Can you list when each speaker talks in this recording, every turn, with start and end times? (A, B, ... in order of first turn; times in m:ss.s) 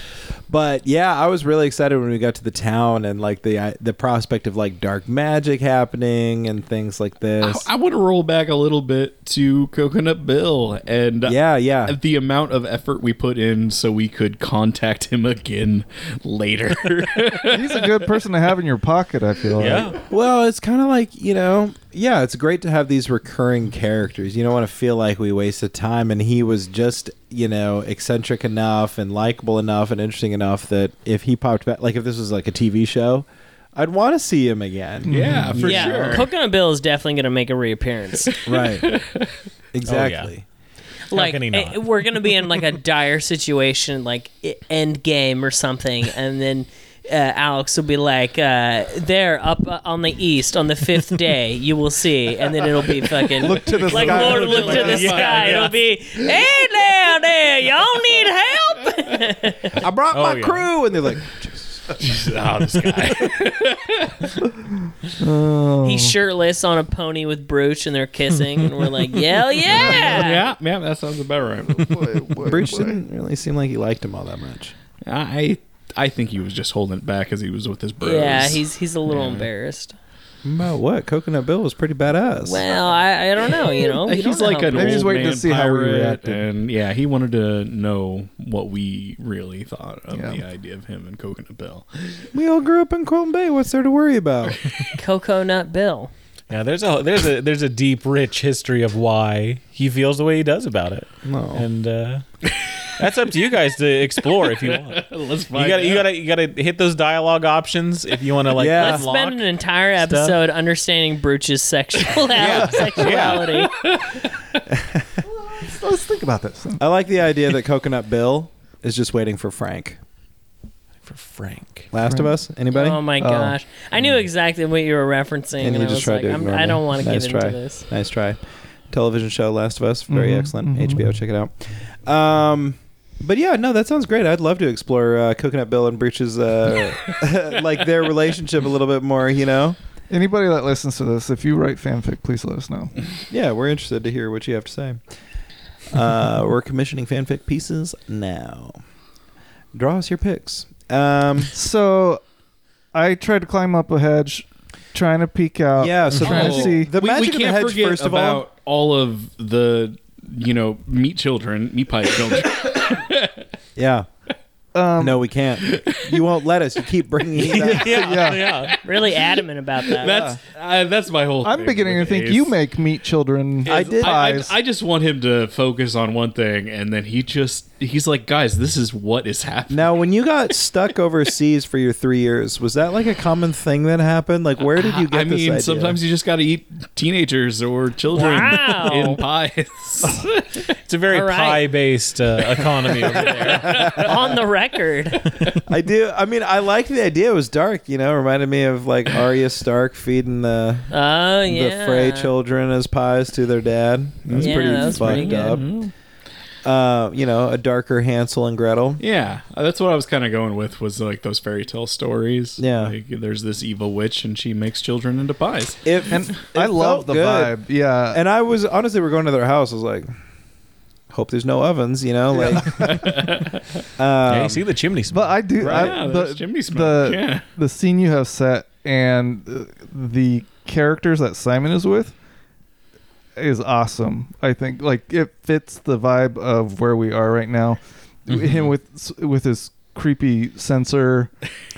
0:00.5-0:07.7 A
0:07.4-0:18.0 B
0:11.2-0:12.0 A
0:17.4-0:20.0 C
0:19.6-0:20.0 D
0:20.0-0:36.2 A
0:35.1-0:35.6 C
0:35.1-0:36.3 B
0:35.6-0:38.4 E
0:38.2-0:39.4 B
0:38.4-0:38.9 A
0:39.7-0:40.4 A
0:39.8-0:40.3 D
0:41.1-0:59.8 E
0:41.1-0:41.8 D
0:53.4-0:55.2 C
0:53.5-0:55.7 B
0:54.8-0:55.7 D
0:59.8-1:02.0 A
1:00.1-1:00.7 D
1:02.0-1:04.4 B
1:05.2-1:06.2 C
1:05.8-1:10.4 E
1:08.8-1:12.2 B
1:09.8-1:10.2 C
1:11.7-1:13.0 C
1:12.4-1:14.7 A
1:15.0-1:19.5 B
1:18.0-1:20.0 E
1:20.4-1:22.6 A
1:22.4-1:25.3 E
1:23.6-1:32.3 B
1:24.7-1:26.4 C
1:30.1-1:30.4 C
1:32.3-1:34.7 A
1:34.9-1:36.1 E
1:36.5-1:42.2 D
1:41.2-1:41.6 A
1:42.5-1:42.8 B
1:42.8-1:50.4 D
1:44.4-1:46.1 B
1:48.5-1:49.0 A
1:48.7-1:53.7 E
1:52.4-1:53.5 D
1:52.4-1:54.6 B
1:54.7-1:55.0 A
1:55.4-1:56.8 C
1:56.8-2:00.0 A
2:01.0-2:01.9 D
2:01.9-2:03.0 A
2:02.0-2:02.3 C
2:02.7-2:07.9 E
2:03.2-2:03.5 C
2:05.6-2:19.8 A
2:10.1-2:11.1 C
2:20.1-2:22.9 C
2:23.3-2:25.0 A
2:25.9-2:28.8 A
2:29.7-2:31.5 A
2:31.5-2:32.2 C
2:32.9-2:36.9 C
2:35.8-2:38.4 A
2:36.1-2:36.6 D
2:36.2-2:43.5 B
2:43.8-2:44.1 A
2:44.7-2:45.2 C
2:45.0-2:48.2 A
2:45.6-2:46.3 B
2:47.4-2:48.8 D
2:47.8-2:48.5 C
2:48.4-2:52.6 B
2:48.8-2:50.3 E
2:50.0-2:50.4 C
2:51.4-2:54.5 C
2:53.6-3:00.0 B
2:53.7-2:54.2 A
2:59.7-3:06.0 A
3:04.7-3:10.6 B
3:08.1-3:09.2 E
3:10.8-3:14.0 D
3:11.1-3:11.6 E
3:12.9-3:14.3 B
3:13.6-3:14.1 A
3:13.9-3:15.3 E
3:15.2-3:15.6 D
3:15.6-3:20.9 A
3:20.9-3:22.3 E
3:21.4-3:25.7 A
3:24.2-3:25.9 B
3:24.4-3:25.6 E
3:26.6-3:29.0 A
3:29.0-3:36.4 B
3:32.6-3:32.9 A
3:35.8-3:37.5 A
3:36.1-3:38.2 C
3:38.1-3:40.1 A
3:41.1-3:43.3 A
3:42.3-3:43.2 C
3:42.7-3:43.8 B
3:44.0-3:44.6 A
3:44.2-3:45.6 D
3:45.1-3:52.1 C
3:45.6-3:47.4 B
3:45.6-3:45.9 A
3:53.4-4:01.3 C
3:58.3-3:58.7 D